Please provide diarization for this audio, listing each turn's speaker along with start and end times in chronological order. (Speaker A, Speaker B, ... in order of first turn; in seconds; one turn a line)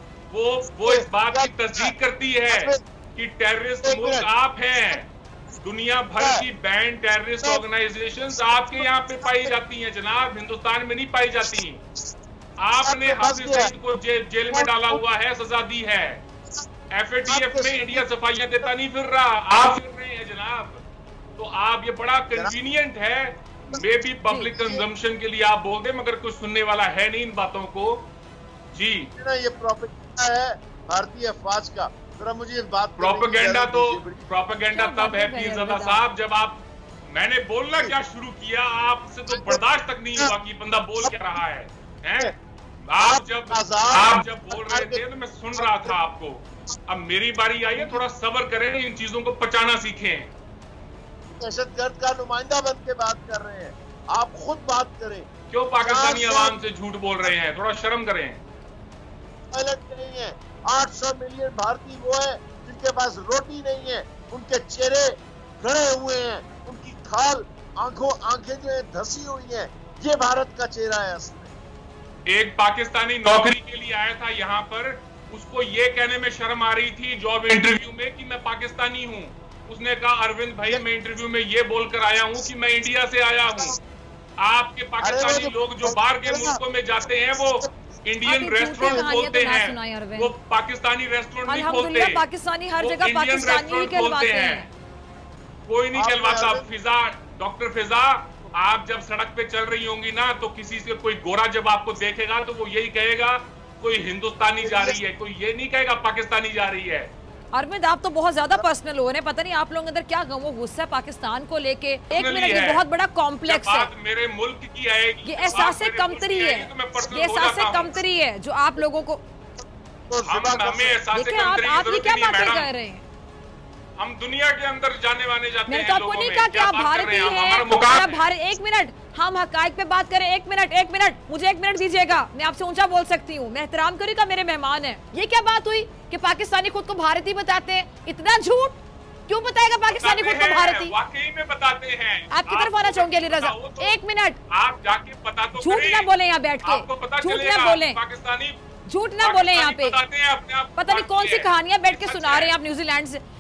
Speaker A: 0.3-11.8
Speaker B: 0.8-1.9
Speaker B: 2.5-2.8
Speaker B: 3.8-4.3
Speaker B: 6.2-6.5
Speaker B: 8.4-9.5
Speaker A: 12.6-16.2
Speaker B: 12.8-13.7
Speaker B: 14.5-15.0
Speaker A: 16.9-20.8
Speaker B: 17.3-18.1
Speaker A: 21.4-28.1
Speaker C: 24.3-24.5
Speaker B: 24.6-24.8
Speaker A: 28.7-29.1
Speaker B: 29.2-34.2
Speaker A: 33.0-42.3
Speaker C: 34.7-36.0
Speaker B: 39.3-39.6
Speaker B: 41.0-41.4
Speaker A: 42.9-50.3
Speaker B: 43.0-45.0
Speaker B: 45.5-46.0
Speaker B: 47.7-48.0
Speaker B: 51.3-55.3
Speaker A: 55.5-58.4
Speaker B: 55.8-56.6
Speaker B: 59.5-71.5
Speaker A: 72.3-83.8
Speaker A: 84.4-92.3
Speaker B: 85.0-86.6
Speaker B: 87.3-87.7
Speaker C: 88.2-90.3
Speaker B: 88.8-89.1
Speaker C: 91.5-94.7
Speaker A: 92.8-94.6
Speaker A: 95.7-107.1
Speaker B: 96.0-96.7
Speaker B: 104.6-105.0
Speaker C: 107.5-113.9
Speaker A: 112.1-112.8
Speaker A: 113.4-118.0
Speaker C: 115.2-119.2
Speaker B: 120.1-121.0
Speaker A: 120.2-122.7
Speaker C: 121.1-123.1
Speaker A: 124.0-128.3
Speaker C: 125.7-140.9
Speaker A: 140.0-144.0
Speaker C: 142.3-144.4
Speaker A: 144.5-146.1
Speaker C: 145.6-148.0
Speaker A: 146.6-148.6
Speaker C: 148.9-150.0
Speaker A: 149.2-152.6
Speaker C: 150.8-153.2